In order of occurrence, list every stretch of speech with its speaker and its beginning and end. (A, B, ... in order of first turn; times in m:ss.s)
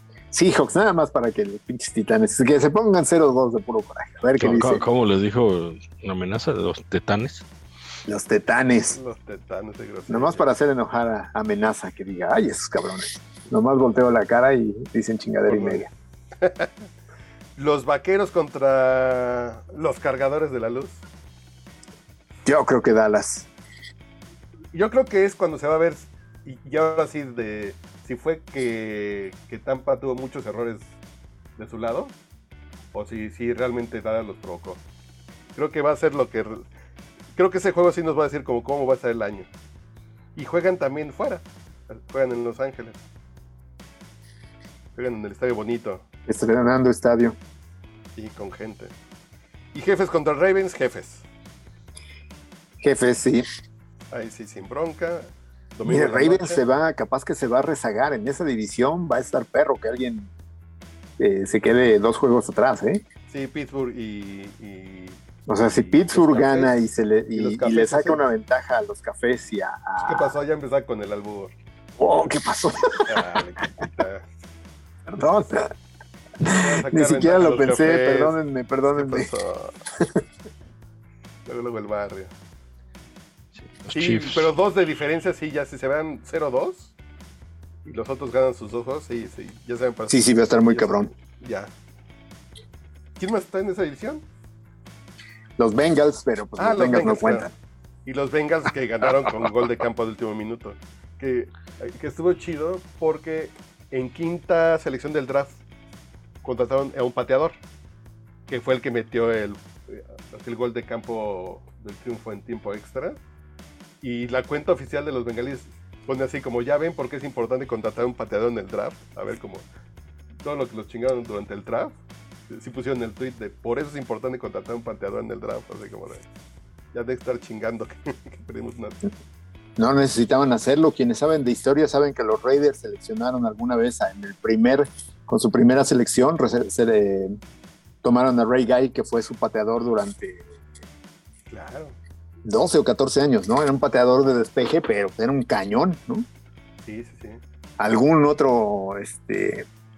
0:00.3-0:04.8 A
0:04.4-0:07.4 B
0:08.1-0:09.0 A
0:08.9-0:10.5 C
0:10.1-0:15.9 A
0:15.5-0:15.9 C
0:16.4-0:16.8 C
0:17.6-0:21.0 C
0:22.5-0:23.5 A
0:24.7-0:30.9 C
0:31.6-0:32.2 C
0:32.9-0:34.8 C
0:35.6-0:36.6 C
0:37.4-0:39.5 C
0:40.4-0:43.0 C
0:45.0-0:46.0 C
0:46.3-0:47.4 A
0:48.2-0:48.9 C
0:49.7-0:51.2 C
0:52.8-0:53.4 A
0:54.1-0:56.6 C
0:55.8-1:00.3 A
1:01.2-1:03.0 A
1:03.3-1:06.7 C
1:05.5-1:10.3 A
1:07.4-1:08.3 C
1:10.0-1:11.5 C
1:12.0-1:13.4 A
1:13.1-1:14.3 C
1:15.1-1:15.7 A
1:16.4-1:19.3 A
1:16.4-1:19.8 C
1:21.5-1:22.3 C
1:23.6-1:24.5 B
1:23.9-1:26.9 C
1:27.8-1:31.7 C
1:30.1-1:31.1 A
1:33.2-1:34.2 C
1:35.6-1:37.5 A
1:36.6-1:37.5 C
1:38.1-1:45.6 C
1:46.4-1:47.6 C
1:48.5-1:53.2 C
1:54.0-1:59.7 C
2:00.4-2:02.0 C
2:02.5-2:06.2 C
2:06.9-2:09.1 C
2:09.8-2:17.4 A
2:18.0-2:20.5 A
2:21.5-2:22.0 C
2:22.4-2:26.3 A
2:26.8-2:27.4 C
2:27.8-2:29.7 A